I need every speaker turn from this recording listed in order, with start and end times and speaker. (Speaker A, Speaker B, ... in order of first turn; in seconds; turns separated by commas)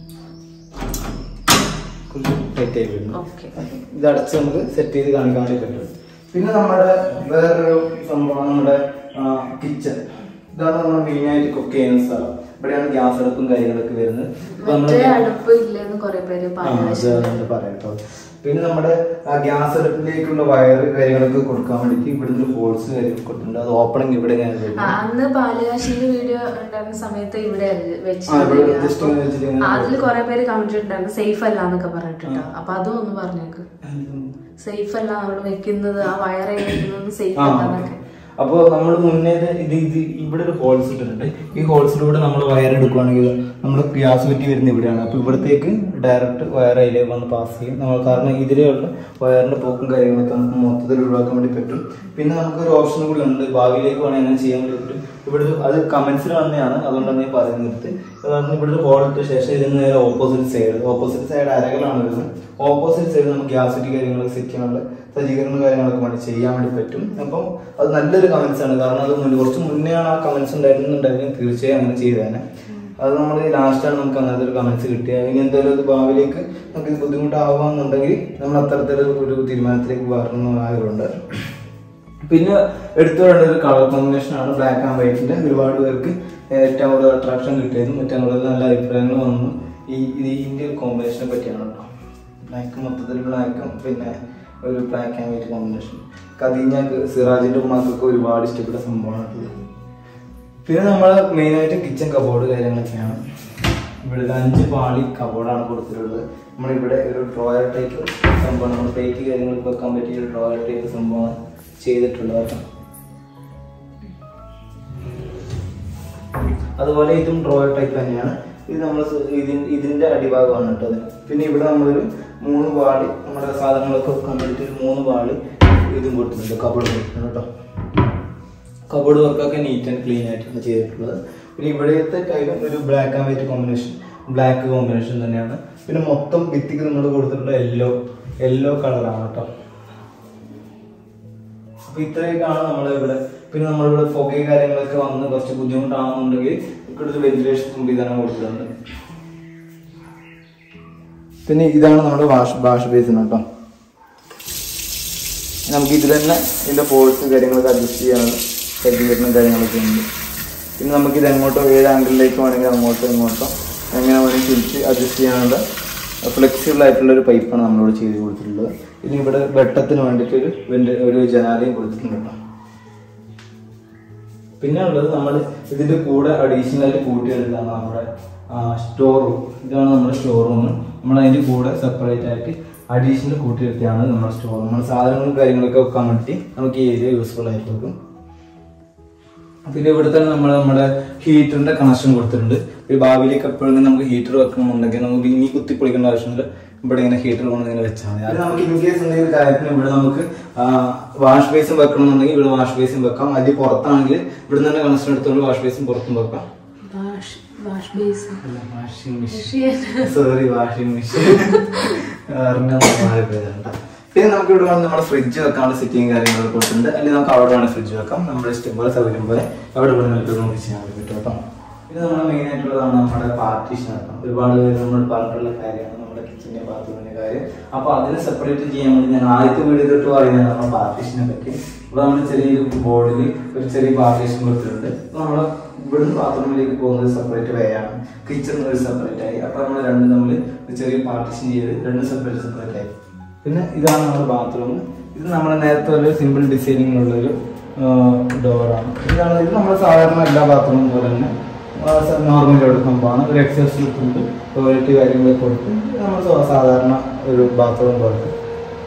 Speaker A: 2.1-15.2, Speaker B: 3.1-3.6, Speaker B: 14.6-17.4, Speaker A: 16.6-24.9, Speaker B: 24.7-33.7, Speaker A: 28.3-30.0, Speaker A: 33.8-34.3, Speaker B: 34.6-38.0, Speaker A: 37.4-37.9, Speaker A: 38.4-81.5, Speaker A: 82.3-91.9, Speaker A: 92.5-99.6, Speaker A: 100.6-103.2, Speaker A: 104.0-112.6, Speaker A: 116.8-127.5, Speaker A: 128.9-139.5, Speaker A: 141.8-148.7, Speaker A: 151.4-153.4, Speaker A: 155.7-160.1, Speaker A: 160.8-165.6, Speaker A: 166.2-172.3, Speaker A: 174.6-187.9, Speaker A: 189.6-206.5, Speaker B: 206.8-208.4, Speaker A: 208.4-258.3, Speaker B: 209.3-210.1, Speaker B: 211.3-212.0